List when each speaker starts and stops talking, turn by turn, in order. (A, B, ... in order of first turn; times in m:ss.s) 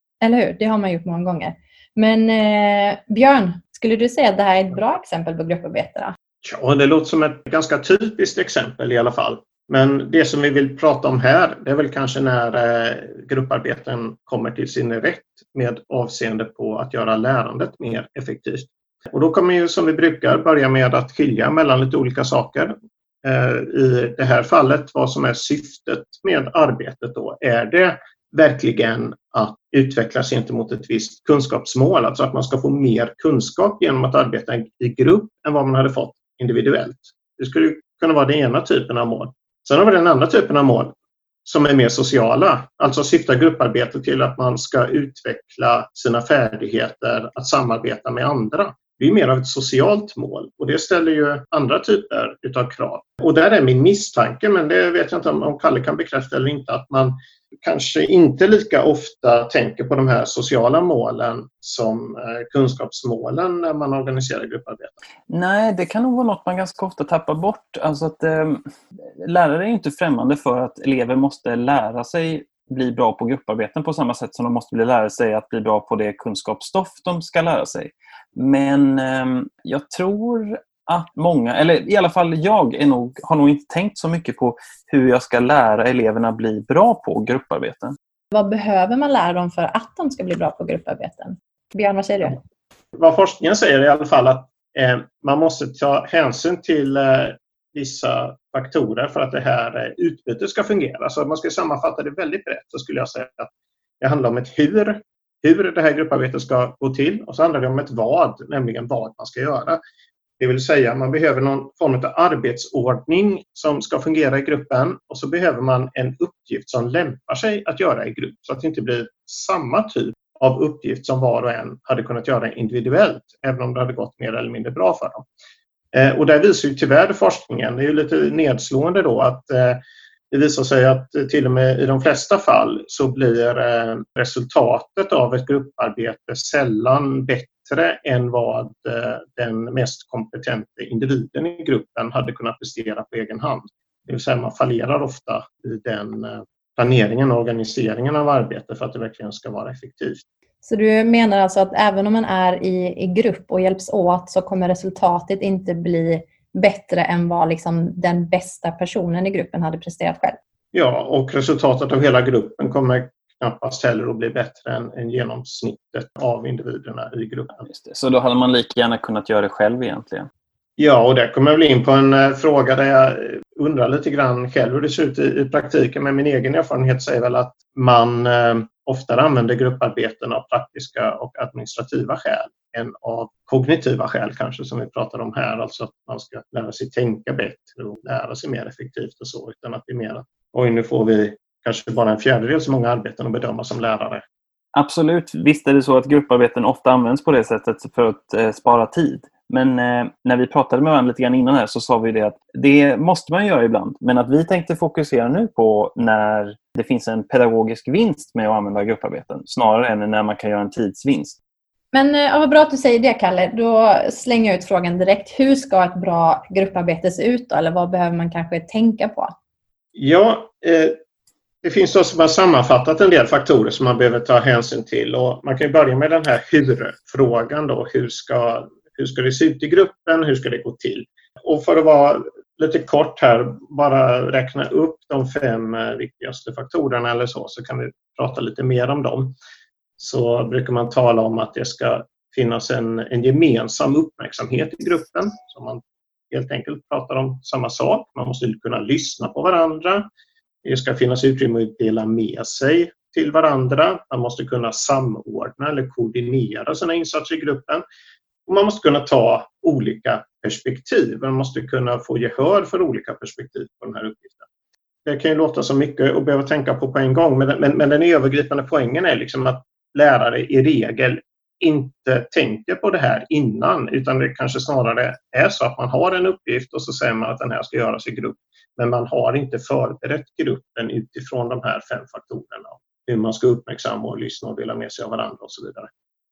0:00.2-0:06.1 A
0:06.4-0:40.9 B
0:41.4-1:05.0 B
1:05.3-1:08.6 C
1:09.2-1:27.9 C
1:28.3-1:32.4 A
1:32.9-1:43.5 B
1:44.0-1:49.8 B
1:50.4-2:05.2 B
2:05.9-2:30.2 B
2:30.6-2:40.4 A
2:40.7-2:47.6 B
2:47.6-2:50.3 C
2:50.8-3:14.2 B
3:14.8-3:31.4 C
3:31.9-3:39.3 A
3:40.0-3:40.9 B
3:41.6-3:59.4 B
4:00.0-4:10.1 B
4:10.6-4:17.8 B
4:18.5-4:24.5 B
4:25.1-4:45.9 B